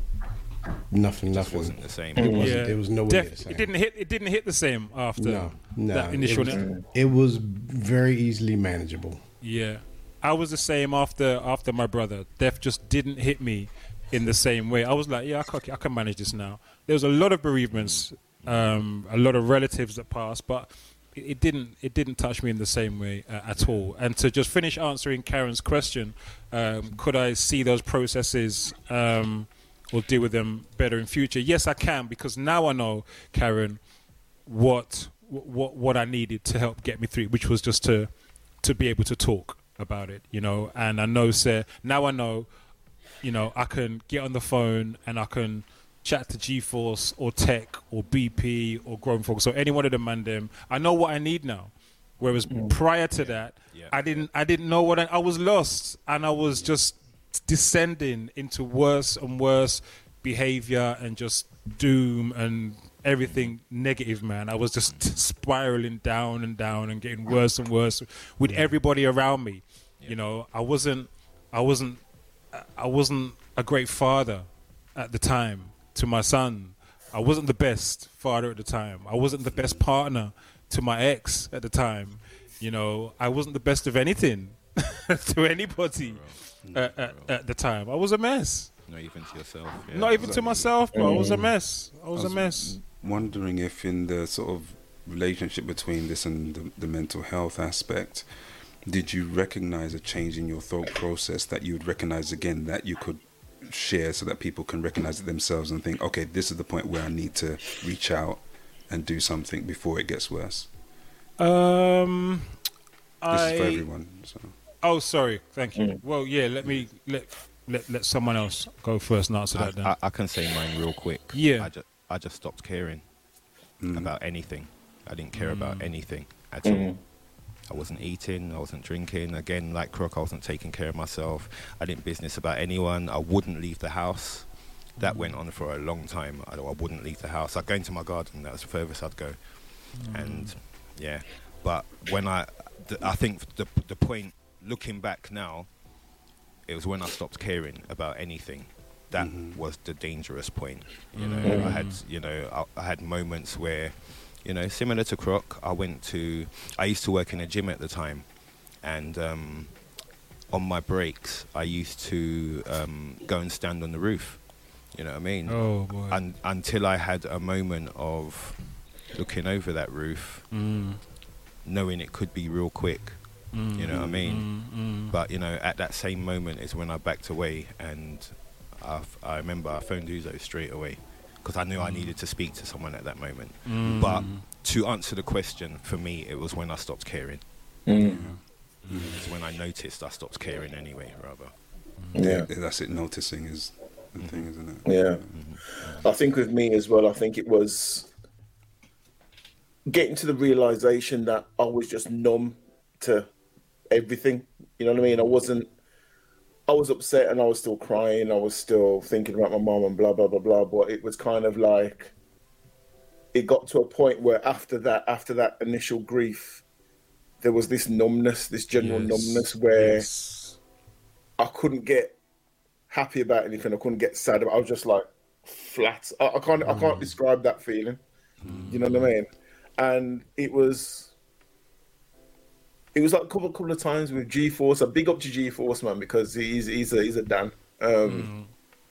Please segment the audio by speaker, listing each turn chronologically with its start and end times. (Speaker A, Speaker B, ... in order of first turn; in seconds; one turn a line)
Speaker A: 0.9-3.7
Speaker B: 1.3-2.5
Speaker C: 2.2-2.5
Speaker D: 2.2-6.6
Speaker A: 5.2-9.2
Speaker C: 6.5-6.8
Speaker D: 9.4-33.8
Speaker B: 17.8-18.6
Speaker D: 34.5-42.5
Speaker D: 43.2-88.7
Speaker C: 52.5-52.7
Speaker B: 53.2-54.0
Speaker B: 63.2-63.5
Speaker B: 86.0-87.3
Speaker B: 88.9-91.2
Speaker D: 89.9-92.8
Speaker C: 90.9-91.4
Speaker E: 92.1-98.2
Speaker E: 98.8-110.7
Speaker D: 111.4-112.5
Speaker D: 113.2-113.8
Speaker E: 113.3-114.5
Speaker D: 114.8-119.9
Speaker B: 119.5-123.0
Speaker D: 121.3-121.7
Speaker E: 123.8-124.1
Speaker B: 123.9-127.1
Speaker D: 125.3-125.9
Speaker C: 126.6-127.0
Speaker B: 127.7-145.7
Speaker D: 135.0-135.3
Speaker D: 139.9-140.5
Speaker B: 146.7-159.8
Speaker E: 149.2-149.6
Speaker D: 151.1-152.0
Speaker C: 151.4-151.8
Speaker B: 160.5-170.4
Speaker D: 165.5-166.2
Speaker D: 170.5-171.0
Speaker B: 171.6-187.4
Speaker D: 173.5-175.1
Speaker E: 174.0-174.3
Speaker D: 181.8-182.1
Speaker D: 183.6-184.4
Speaker E: 183.8-184.4
Speaker C: 187.8-188.2
Speaker E: 188.0-189.3
Speaker D: 188.0-189.3
Speaker B: 189.2-191.5
Speaker D: 192.0-192.3
Speaker C: 192.2-192.5
Speaker E: 192.2-195.3
Speaker B: 194.2-194.4
Speaker C: 194.8-195.2
Speaker B: 195.3-196.0
Speaker C: 195.8-198.1
Speaker C: 199.8-203.3
Speaker C: 203.9-205.7
Speaker C: 206.7-212.1
Speaker C: 213.3-216.6
Speaker C: 217.4-220.1
Speaker D: 218.8-220.6
Speaker C: 221.4-222.2
Speaker C: 222.9-228.0
Speaker E: 228.4-228.8
Speaker D: 228.4-229.1
Speaker C: 228.7-231.1
Speaker C: 232.9-238.3
Speaker D: 238.0-238.5